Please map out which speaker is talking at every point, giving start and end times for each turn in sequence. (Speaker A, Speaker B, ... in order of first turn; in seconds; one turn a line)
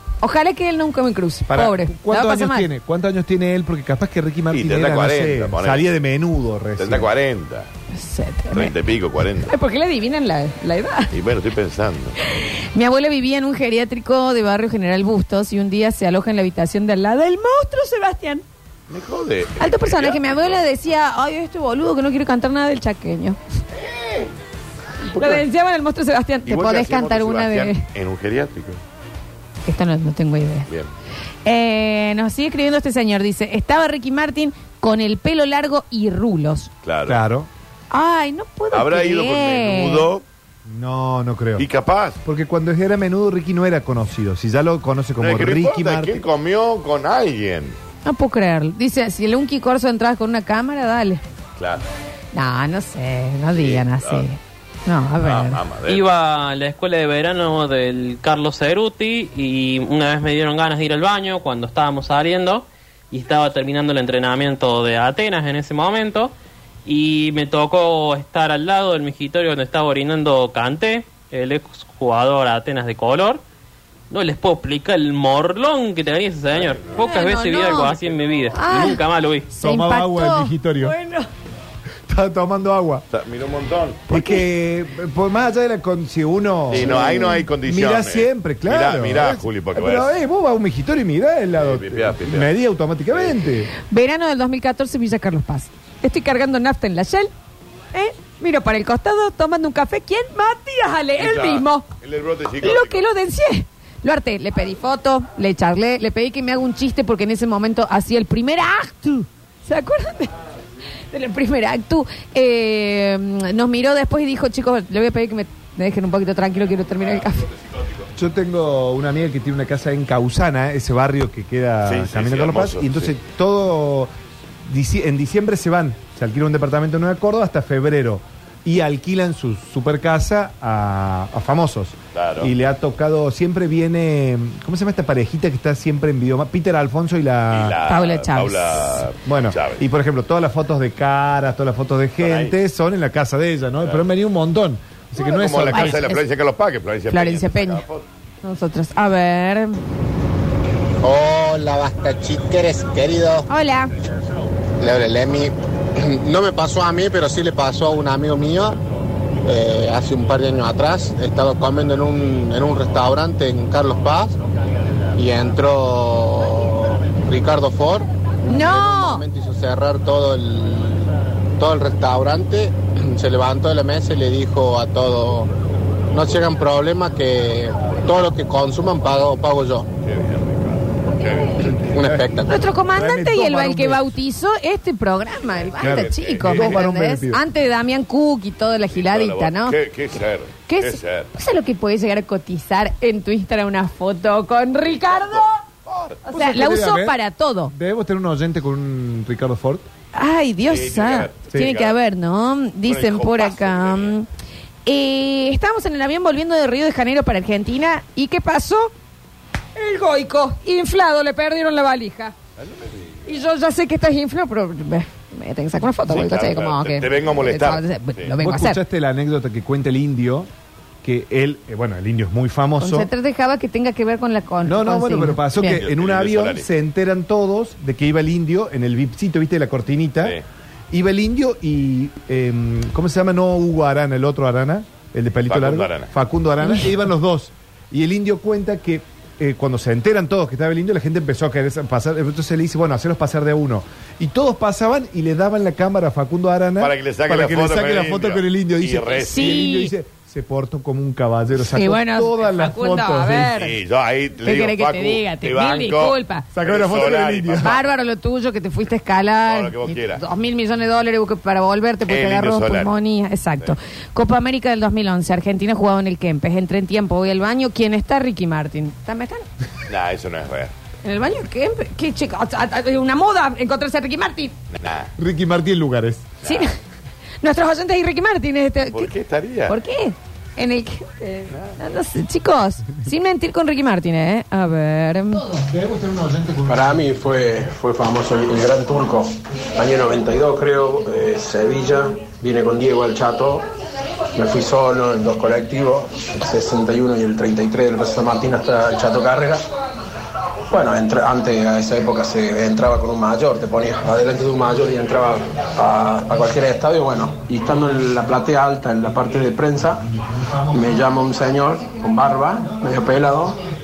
Speaker A: 0.2-2.7
Speaker B: 1.5-7.1
Speaker C: 4.5-5.9
Speaker C: 6.8-7.7
Speaker A: 7.9-8.8
Speaker C: 8.5-9.5
Speaker A: 9.5-11.1
Speaker C: 11.1-12.2
Speaker A: 12.3-18.4
Speaker C: 18.9-20.7
Speaker A: 19.6-23.4
Speaker C: 23.7-24.3
Speaker C: 25.1-25.5
Speaker A: 25.2-27.8
Speaker C: 26.4-28.8
Speaker A: 29.6-30.7
Speaker A: 31.4-36.7
Speaker C: 36.8-37.2
Speaker B: 37.1-37.5
Speaker A: 37.9-40.1
Speaker C: 38.7-40.2
Speaker B: 40.7-41.7
Speaker C: 41.6-42.2
Speaker B: 42.2-46.2
Speaker C: 45.2-47.8
Speaker A: 48.0-51.2
Speaker C: 51.6-51.9
Speaker A: 52.3-55.6
Speaker C: 53.5-54.3
Speaker C: 55.2-56.1
Speaker D: 55.9-66.3
Speaker D: 66.9-73.4
Speaker D: 74.1-79.5
Speaker A: 77.0-79.0
Speaker B: 79.5-81.0
Speaker A: 79.6-81.3
Speaker B: 82.1-83.0
Speaker C: 83.1-84.1
Speaker B: 84.1-93.7
Speaker A: 84.1-84.4
Speaker C: 86.7-90.2
Speaker A: 86.8-87.4
Speaker C: 91.5-92.5
Speaker C: 93.1-93.4
Speaker A: 93.9-97.3
Speaker A: 97.9-101.9
Speaker C: 101.2-103.1
Speaker A: 102.6-110.3
Speaker A: 111.1-117.5
Speaker B: 118.2-124.1
Speaker C: 121.8-123.1
Speaker B: 124.7-137.8
Speaker C: 132.1-132.5
Speaker C: 137.5-139.8
Speaker A: 137.9-139.1
Speaker B: 139.3-146.0
Speaker C: 142.2-142.6
Speaker A: 145.2-146.2
Speaker C: 145.2-148.1
Speaker A: 147.1-147.8
Speaker A: 148.4-149.8
Speaker E: 151.0-153.5
Speaker A: 153.5-153.9
Speaker E: 154.8-158.8
Speaker E: 159.4-164.3
Speaker E: 165.2-175.5
Speaker A: 168.5-169.3
Speaker E: 176.1-179.9
Speaker C: 180.0-181.9
Speaker E: 181.7-182.5
Speaker B: 182.0-184.1
Speaker A: 182.5-189.8
Speaker C: 185.8-186.8
Speaker B: 185.8-187.4
Speaker C: 188.9-191.3
Speaker A: 190.7-195.6
Speaker C: 195.0-196.2
Speaker A: 196.3-197.7
Speaker B: 196.3-197.2
Speaker B: 197.7-199.8
Speaker A: 200.1-204.3
Speaker C: 200.7-202.0
Speaker C: 202.9-204.2
Speaker A: 204.9-208.9
Speaker A: 209.8-212.3
Speaker C: 212.6-213.4
Speaker A: 213.3-218.8
Speaker C: 216.1-218.4
Speaker B: 218.4-220.5
Speaker B: 221.0-223.1
Speaker A: 222.8-225.8
Speaker B: 224.7-230.4
Speaker C: 225.6-226.7
Speaker B: 230.9-253.6
Speaker C: 235.5-236.1
Speaker C: 246.8-249.5
Speaker A: 249.2-249.9
Speaker A: 251.6-253.8
Speaker C: 253.6-257.9
Speaker A: 254.4-256.5
Speaker B: 256.5-257.8
Speaker A: 257.6-269.5
Speaker C: 259.4-260.2
Speaker C: 262.1-262.9
Speaker C: 269.9-270.7
Speaker A: 271.0-274.6
Speaker C: 274.7-275.1
Speaker B: 275.2-276.4
Speaker C: 276.4-276.7
Speaker A: 276.4-276.7
Speaker A: 277.4-279.1
Speaker C: 278.9-279.8
Speaker A: 279.7-285.6
Speaker C: 281.5-281.8
Speaker B: 285.7-286.7
Speaker F: 286.6-293.6
Speaker F: 294.4-299.6
Speaker F: 300.7-310.0
Speaker F: 310.7-313.6